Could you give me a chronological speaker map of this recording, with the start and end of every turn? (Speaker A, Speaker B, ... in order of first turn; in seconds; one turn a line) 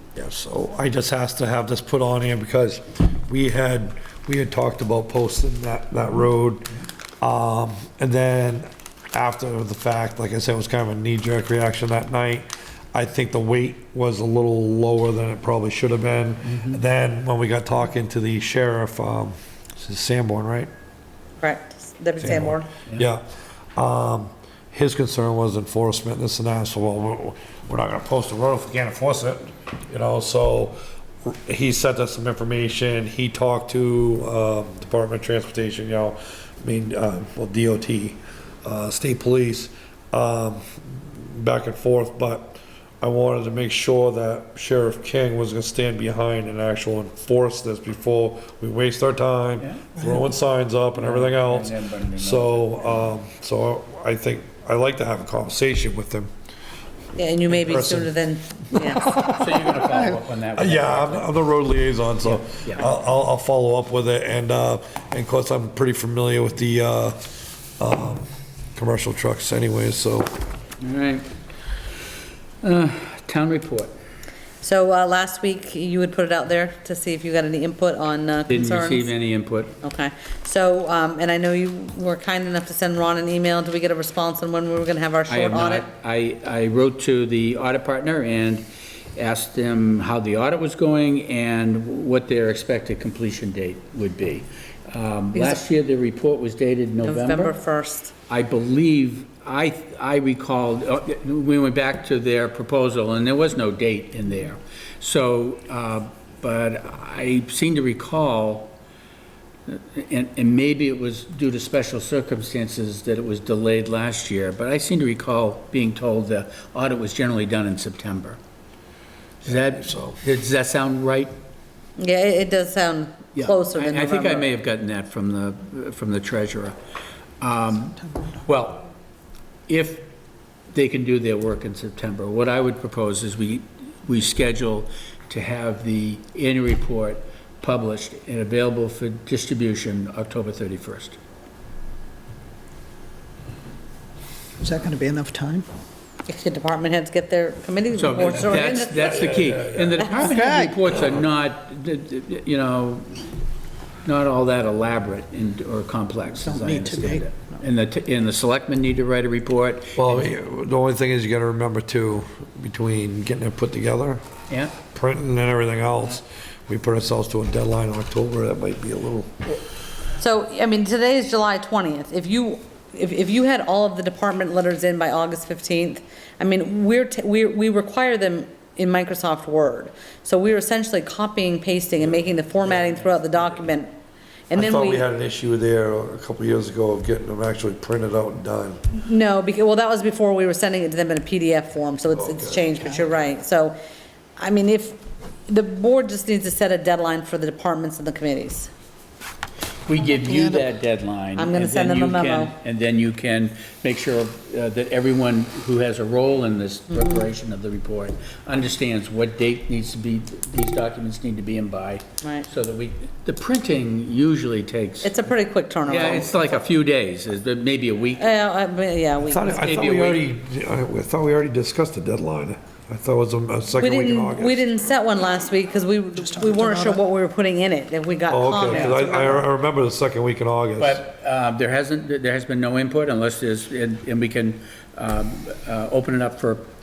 Speaker A: 0.1-6.7
Speaker A: 7.2-20.7
Speaker B: 21.4-22.7
Speaker A: 22.2-23.2
Speaker A: 23.8-56.3
Speaker C: 49.6-49.9
Speaker C: 51.0-53.1
Speaker B: 57.1-59.0
Speaker A: 57.5-58.1
Speaker A: 58.7-60.0
Speaker C: 59.3-61.3
Speaker A: 60.5-67.2
Speaker C: 62.2-62.9
Speaker A: 67.8-70.4
Speaker C: 70.8-71.3
Speaker C: 72.6-73.9
Speaker B: 74.6-79.1
Speaker C: 78.5-79.7
Speaker B: 79.8-85.9
Speaker C: 85.3-97.5
Speaker B: 95.3-95.6
Speaker B: 97.0-98.1
Speaker C: 98.3-108.7
Speaker C: 109.7-118.4
Speaker C: 119.4-121.3
Speaker A: 119.5-120.2
Speaker B: 122.0-124.5
Speaker C: 123.3-126.8
Speaker C: 127.4-128.9
Speaker C: 129.7-130.1
Speaker C: 130.7-141.2
Speaker D: 144.6-145.7
Speaker B: 146.3-149.2
Speaker C: 147.9-153.3
Speaker A: 148.5-150.0
Speaker D: 150.1-150.8
Speaker C: 154.0-160.3
Speaker D: 156.4-157.2
Speaker A: 159.9-164.2
Speaker A: 164.9-169.3
Speaker B: 170.2-183.9
Speaker B: 184.5-185.0
Speaker A: 184.5-188.8
Speaker B: 189.0-193.7
Speaker A: 192.1-192.7
Speaker B: 194.4-198.7
Speaker C: 199.9-215.1
Speaker B: 201.3-202.5
Speaker B: 215.0-216.6
Speaker C: 215.8-218.3
Speaker B: 218.2-219.7
Speaker A: 219.2-224.6
Speaker C: 219.6-220.2
Speaker B: 223.8-229.4
Speaker A: 228.3-231.0
Speaker C: 228.6-229.2
Speaker C: 230.8-236.7